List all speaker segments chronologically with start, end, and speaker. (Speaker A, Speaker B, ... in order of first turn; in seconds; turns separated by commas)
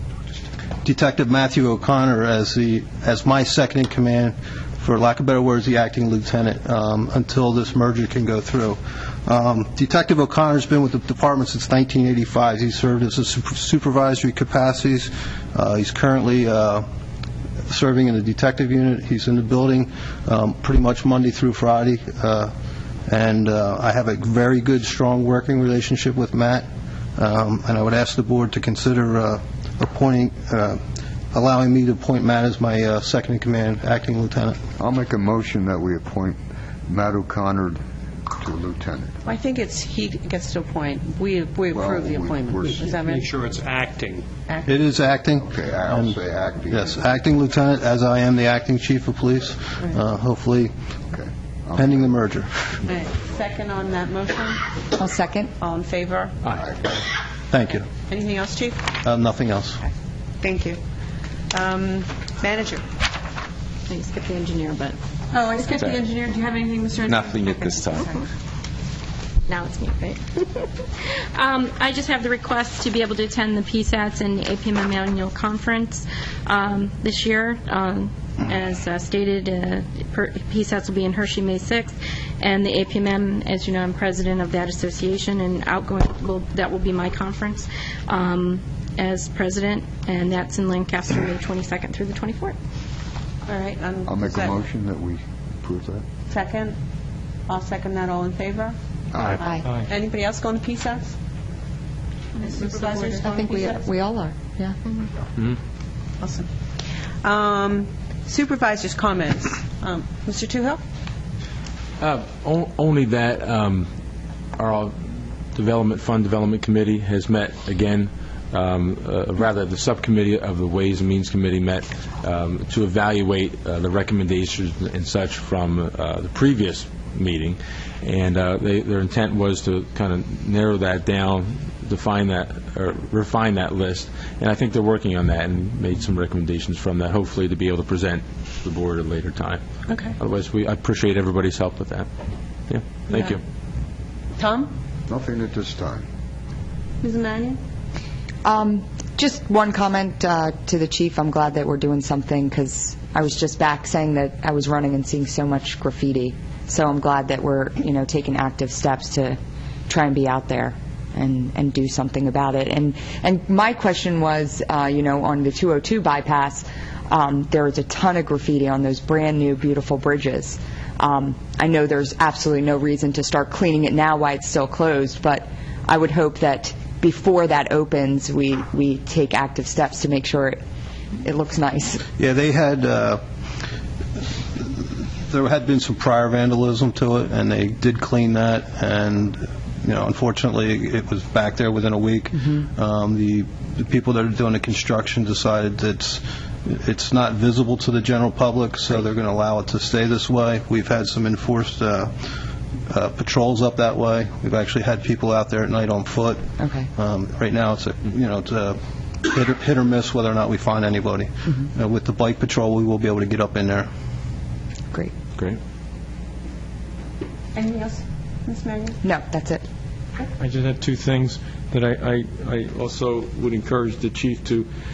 Speaker A: 0.8-16.9, Speaker A: 17.7-22.5, Speaker A: 23.1-30.8, Speaker A: 31.3-34.6, Speaker B: 34.8-39.2, Speaker C: 39.2-43.4, Speaker B: 41.7-42.9, Speaker C: 44.5-44.9, Speaker A: 44.6-46.2, Speaker B: 45.4-47.0, Speaker A: 46.7-50.7, Speaker B: 51.1-52.2, Speaker A: 51.8-52.8, Speaker C: 52.9-54.6, Speaker D: 55.0-55.5, Speaker C: 55.6-56.4, Speaker B: 56.5-56.9, Speaker A: 57.5-57.9, Speaker C: 58.1-58.9, Speaker A: 59.0-59.8, Speaker C: 60.4-60.8, Speaker C: 61.5-62.9, Speaker E: 63.9-65.0, Speaker C: 65.3-68.2, Speaker E: 65.5-65.8, Speaker F: 67.1-68.0, Speaker E: 69.5-92.5, Speaker C: 93.5-94.5, Speaker B: 94.0-96.0, Speaker C: 96.3-96.8, Speaker C: 97.5-98.8, Speaker B: 99.1-99.4, Speaker C: 99.3-101.1, Speaker C: 102.4-103.9, Speaker D: 102.8-104.8, Speaker C: 106.2-106.5, Speaker C: 107.2-110.8, Speaker F: 112.0-113.9, Speaker F: 114.6-139.6, Speaker C: 139.9-140.1, Speaker F: 140.2-142.1, Speaker F: 142.7-143.4, Speaker C: 144.4-144.7, Speaker B: 145.1-146.1, Speaker C: 147.0-147.6, Speaker D: 148.4-180.6, Speaker D: 181.2-182.0, Speaker A: 182.2-183.2, Speaker A: 184.5-202.1, Speaker A: 202.9-213.9, Speaker D: 206.6-206.9, Speaker C: 217.5-219.0, Speaker D: 219.0-219.6, Speaker G: 220.4-224.7